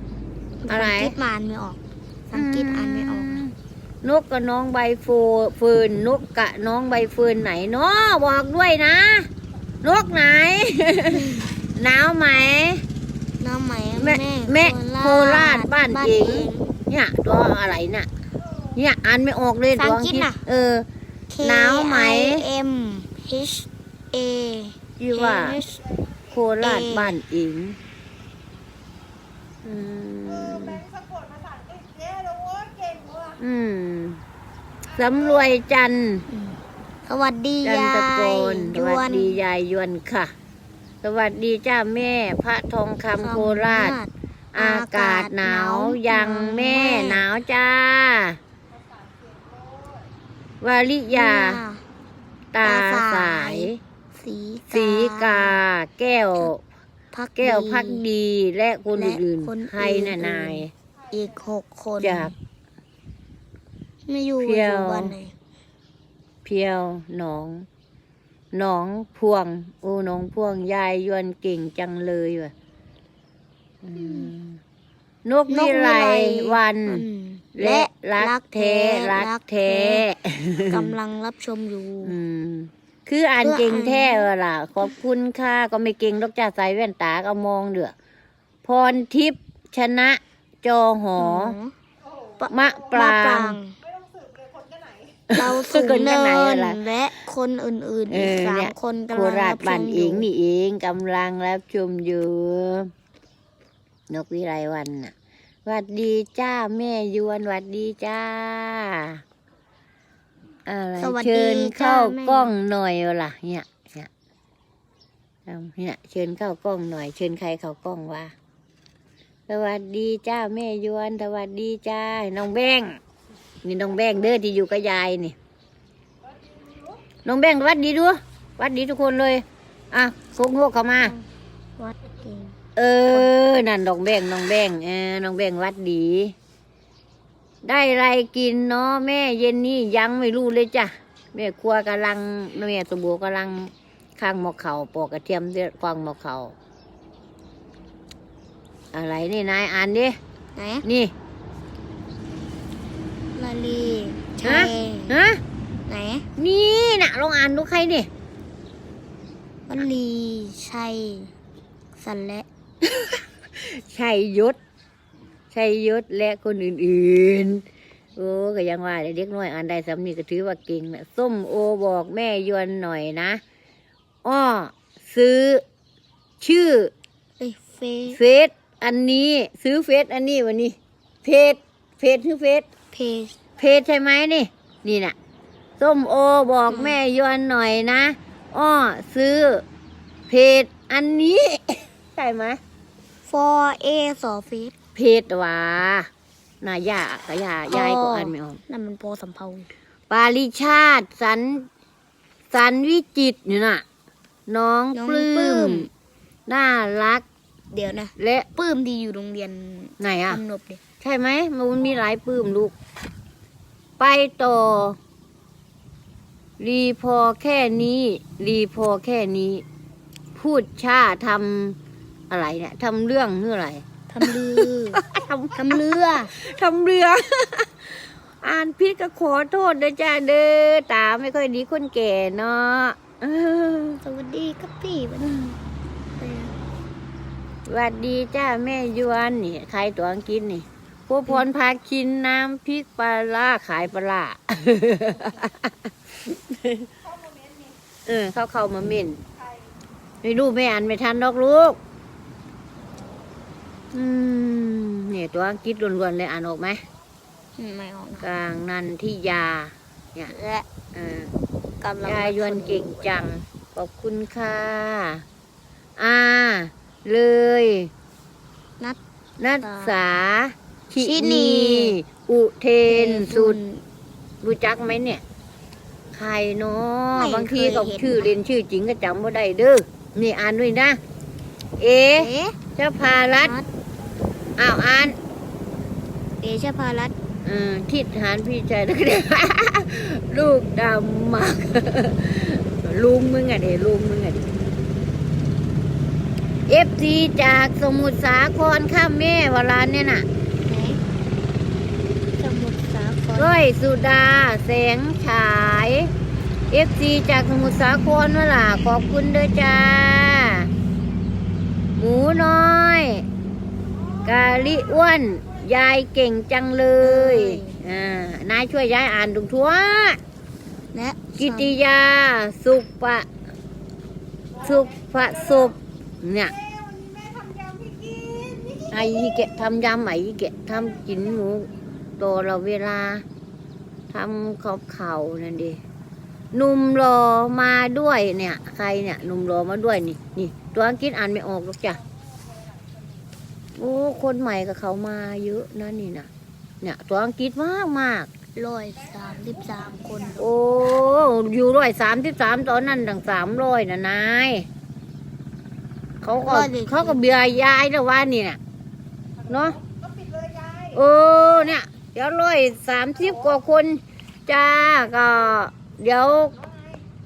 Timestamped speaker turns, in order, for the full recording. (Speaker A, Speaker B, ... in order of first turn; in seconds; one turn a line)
Speaker A: 0.6-3.4
Speaker B: 0.7-1.1
Speaker B: 2.3-9.3
Speaker B: 9.8-12.8
Speaker A: 11.1-11.5
Speaker A: 13.4-16.7
Speaker B: 14.0-18.1
Speaker C: 18.4-18.8
Speaker B: 18.8-20.9
Speaker A: 19.8-20.4
Speaker A: 21.3-25.8
Speaker B: 21.4-22.4
Speaker B: 25.0-25.6
Speaker C: 25.6-26.5
Speaker B: 26.3-27.8
Speaker A: 26.6-27.1
Speaker B: 29.6-30.8
Speaker C: 30.2-33.4
Speaker B: 33.4-34.2
Speaker C: 34.9-35.5
Speaker B: 34.9-36.2
Speaker A: 36.3-39.4
Speaker B: 37.6-40.3
Speaker B: 41.0-44.0
Speaker A: 43.2-47.2
Speaker B: 44.5-48.4
Speaker C: 48.7-50.1
Speaker B: 50.6-51.6
Speaker A: 51.1-51.8
Speaker B: 52.5-53.8
Speaker A: 52.6-55.6
Speaker B: 54.7-56.6
Speaker A: 57.1-58.0
Speaker B: 57.4-60.7
Speaker A: 59.0-62.3
Speaker C: 60.9-61.5
Speaker B: 62.0-62.3
Speaker A: 64.1-65.3
Speaker B: 64.4-65.1
Speaker B: 66.4-67.7
Speaker B: 68.5-72.5
Speaker B: 73.8-74.6
Speaker A: 73.9-74.3
Speaker B: 75.2-77.0
Speaker A: 75.5-80.0
Speaker B: 77.5-80.9
Speaker A: 80.7-82.1
Speaker B: 82.0-87.9
Speaker A: 83.4-84.3
Speaker B: 88.6-91.6
Speaker A: 91.2-91.7
Speaker C: 92.0-93.1
Speaker A: 92.4-93.7
Speaker B: 92.5-93.6
Speaker C: 93.8-95.3
Speaker B: 95.3-96.8
Speaker A: 95.3-100.3
Speaker B: 98.1-102.9
Speaker B: 104.1-105.1
Speaker B: 105.7-109.2
Speaker B: 110.7-114.1
Speaker A: 111.0-112.5
Speaker B: 115.5-118.3
Speaker B: 119.5-123.0
Speaker B: 123.6-125.3
Speaker C: 126.2-127.0
Speaker B: 127.2-131.1
Speaker A: 131.8-132.5
Speaker B: 132.8-136.3
Speaker B: 137.6-146.5
Speaker B: 148.9-150.2
Speaker A: 150.5-150.8
Speaker B: 150.8-151.1
Speaker A: 153.3-155.2
Speaker B: 154.4-155.4
Speaker A: 155.9-156.2
Speaker B: 156.4-158.1
Speaker A: 159.7-161.3
Speaker A: 161.9-162.4
Speaker B: 162.8-164.6
Speaker B: 165.5-167.6
Speaker B: 168.2-173.4
Speaker B: 174.2-175.6
Speaker B: 176.4-176.9
Speaker A: 177.4-178.2
Speaker B: 178.1-182.7
Speaker A: 182.9-183.4
Speaker B: 183.6-185.2
Speaker B: 185.8-189.6
Speaker A: 186.7-187.0
Speaker B: 190.3-192.6
Speaker A: 193.2-194.7
Speaker B: 194.9-196.1
Speaker B: 196.6-198.6
Speaker A: 197.7-199.7
Speaker B: 200.1-201.7
Speaker B: 202.5-203.8
Speaker B: 204.5-205.9
Speaker A: 204.9-205.9
Speaker B: 206.5-207.2
Speaker A: 207.7-210.8
Speaker B: 208.2-208.5
Speaker B: 210.0-210.4
Speaker B: 211.0-212.7
Speaker B: 214.0-215.0
Speaker B: 216.6-219.6
Speaker B: 220.3-221.8
Speaker B: 222.3-234.0
Speaker A: 224.1-225.0
Speaker A: 225.5-226.3
Speaker A: 234.0-235.5
Speaker A: 236.2-236.5
Speaker B: 237.7-246.9
Speaker C: 247.0-247.8
Speaker B: 248.1-249.2
Speaker C: 249.3-249.7
Speaker B: 250.2-251.8
Speaker B: 253.9-256.8
Speaker A: 257.6-258.3
Speaker B: 258.2-260.3
Speaker A: 260.3-260.6
Speaker B: 260.9-261.3
Speaker A: 261.8-263.1
Speaker B: 262.0-265.2
Speaker B: 266.0-267.9
Speaker B: 269.4-273.6
Speaker A: 269.6-269.9
Speaker A: 271.0-272.0
Speaker A: 272.9-273.8
Speaker B: 274.4-275.2
Speaker B: 276.1-281.0
Speaker A: 277.1-278.3
Speaker B: 281.8-283.6
Speaker A: 282.2-282.6
Speaker B: 284.6-285.2
Speaker A: 286.4-287.1
Speaker B: 287.4-294.4
Speaker B: 296.7-300.2
Speaker A: 300.7-301.0
Speaker A: 302.4-303.6
Speaker B: 303.3-306.1
Speaker B: 306.7-310.7
Speaker B: 312.0-313.2
Speaker C: 313.9-315.6
Speaker B: 314.2-320.2
Speaker A: 317.0-317.8
Speaker A: 320.9-321.7
Speaker B: 321.4-323.3
Speaker C: 324.5-325.8
Speaker B: 324.6-326.5
Speaker C: 326.5-329.4
Speaker B: 328.9-333.2
Speaker B: 334.1-335.8
Speaker B: 336.5-342.0
Speaker C: 342.0-343.3
Speaker B: 343.8-346.3
Speaker B: 346.8-348.3
Speaker A: 348.5-350.4
Speaker C: 348.9-350.5
Speaker B: 350.4-354.7
Speaker B: 356.2-358.6
Speaker A: 356.4-357.2
Speaker C: 359.4-361.0
Speaker B: 359.5-359.8
Speaker B: 360.9-366.5
Speaker C: 363.2-363.5
Speaker C: 366.5-367.0